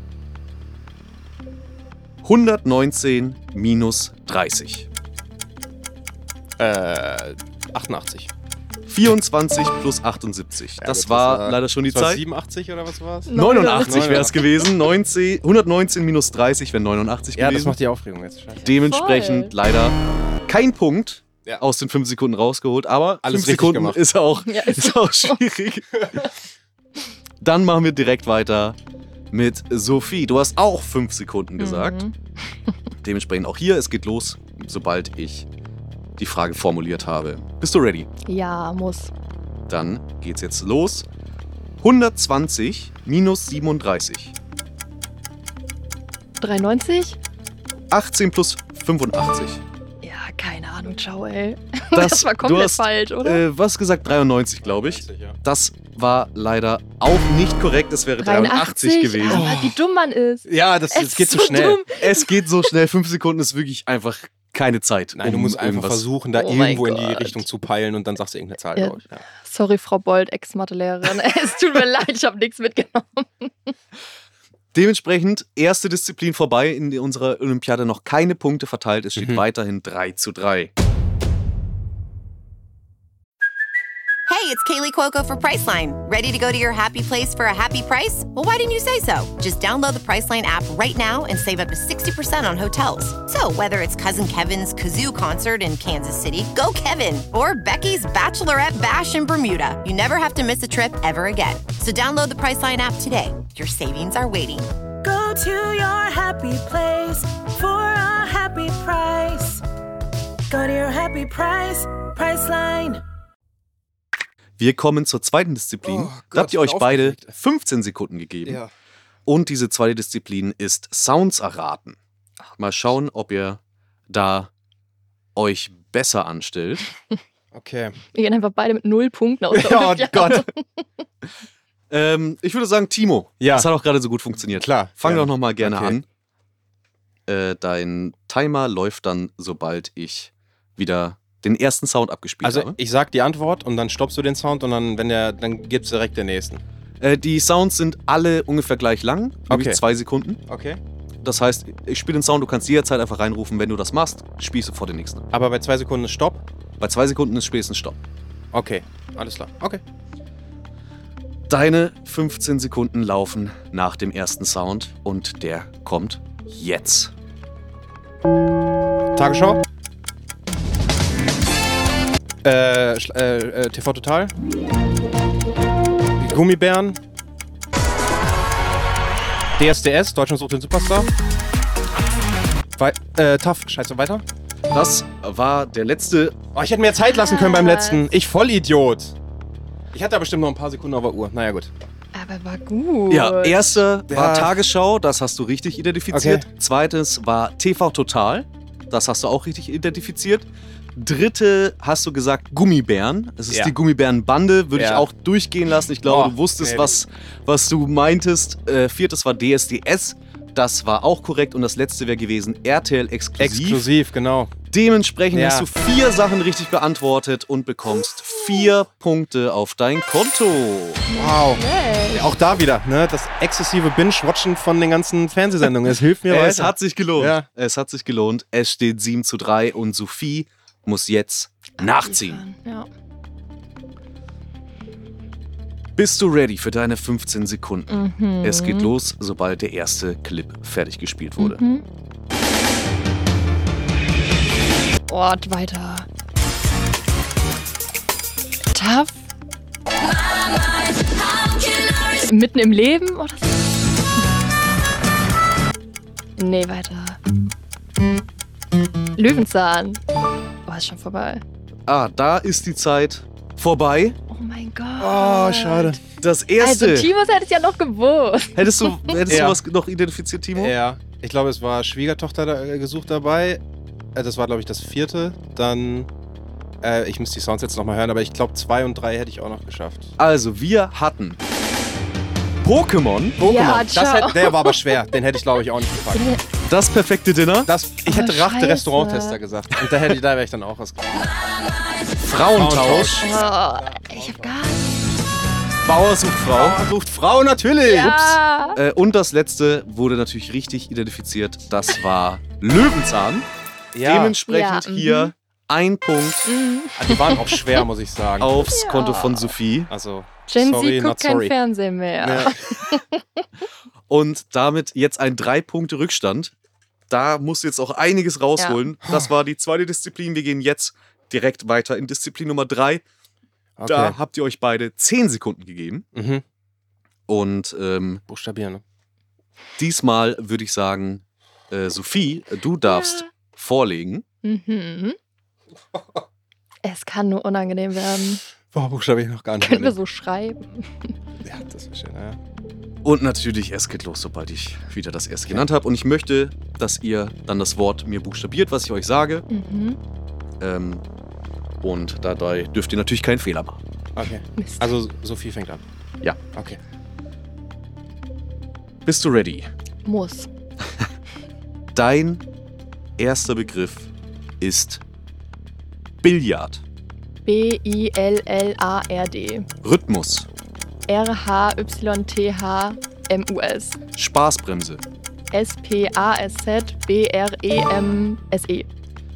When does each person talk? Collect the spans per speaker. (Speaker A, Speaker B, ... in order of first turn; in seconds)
Speaker A: 2.2-4.9, 8.9-12.2, 13.3-17.8, 18.6-26.2, 27.4-28.8, 29.3-32.0, 33.0-35.5, 36.2-38.1, 39.7-41.1, 41.8-44.3, 47.9-49.6, 51.9-59.5, 62.0-66.1, 74.7-80.7, 114.6-118.6, 119.3-122.0, 122.6-124.5, 125.4-126.9, 131.9-136.1, 137.3-142.8, 147.0-150.4, 151.2-155.3, 156.8-158.0, 161.5-167.1, 184.7-186.4, 193.1-213.9, 214.7-221.1, 226.3-232.4, 236.0-241.6, 261.9-264.2, 266.2-267.1, 268.6-270.8, 280.2-281.4, 282.6-283.4, 286.6-287.7, 292.2-293.3, 295.9-296.8, 298.0-303.5, 304.0-306.5, 308.4-309.9, 314.1-316.5, 317.1-323.0, 323.9-326.1, 327.3-328.2, 329.8-334.2, 343.0-349.4, 350.6-351.0, 351.8-353.8, 359.1-359.7, 361.9-362.4, 363.2-364.1, 364.6-365.0, 366.2-366.8, 369.8-370.5, 374.2-375.0
Speaker B: 6.6-8.3, 10.8-14.4, 17.4-18.7, 23.2-24.0, 54.6-55.4, 59.3-59.8, 60.5-61.8, 65.2-69.2, 79.2-79.4, 115.8-117.4, 118.5-118.7, 127.5-128.0, 129.5-130.5, 133.4-133.7, 134.5-136.0, 142.4-146.6, 149.5-149.8, 150.5-150.8, 155.3-156.4, 158.5-159.8, 169.2-169.6, 172.4-174.3, 176.2-177.0, 179.6-181.1, 182.8-184.2, 186.5-189.2, 189.9-191.7, 194.1-194.5, 196.1-196.5, 203.5-203.8, 204.7-205.1, 206.1-207.0, 213.4-214.5, 215.3-215.7, 221.1-221.6, 222.1-227.5, 265.0-266.0, 269.3-269.6, 270.6-273.6, 274.1-276.1, 276.8-280.2, 283.4-286.3, 287.7-291.3, 292.5-294.6, 296.5-298.4, 303.9-304.4, 307.0-308.6, 309.9-311.5, 312.2-312.7, 323.8-324.2, 326.1-326.4, 328.3-328.8, 338.7-340.0, 341.4-342.4, 354.1-355.8, 356.4-356.8
Speaker C: 13.3-14.7, 18.7-19.5, 24.5-25.4, 31.6-32.2, 38.3-39.1, 46.4-47.2, 50.0-53.4, 58.2-62.5, 66.3-67.4, 68.8-73.7, 128.1-130.8, 187.1-188.1, 192.1-193.8, 221.1-222.3, 231.8-232.9, 237.9-238.9, 241.4-241.8, 245.1-246.1, 248.7-249.2, 252.0-253.7, 256.4-257.2, 259.2-260.0, 260.7-261.4, 264.3-266.0, 266.6-269.2, 283.4-284.8, 286.1-286.4, 288.1-289.4, 293.2-295.1, 297.9-298.8, 304.5-305.3, 306.5-307.8, 308.7-309.5, 310.5-313.4, 332.9-333.2, 334.4-335.2, 336.8-338.4, 339.6-341.1, 349.5-350.0, 354.6-355.0, 360.1-360.5, 367.5-369.7, 371.1-374.0, 375.5-378.9
Speaker D: 84.3-104.7
Speaker E: 105.0-109.6, 110.5-113.0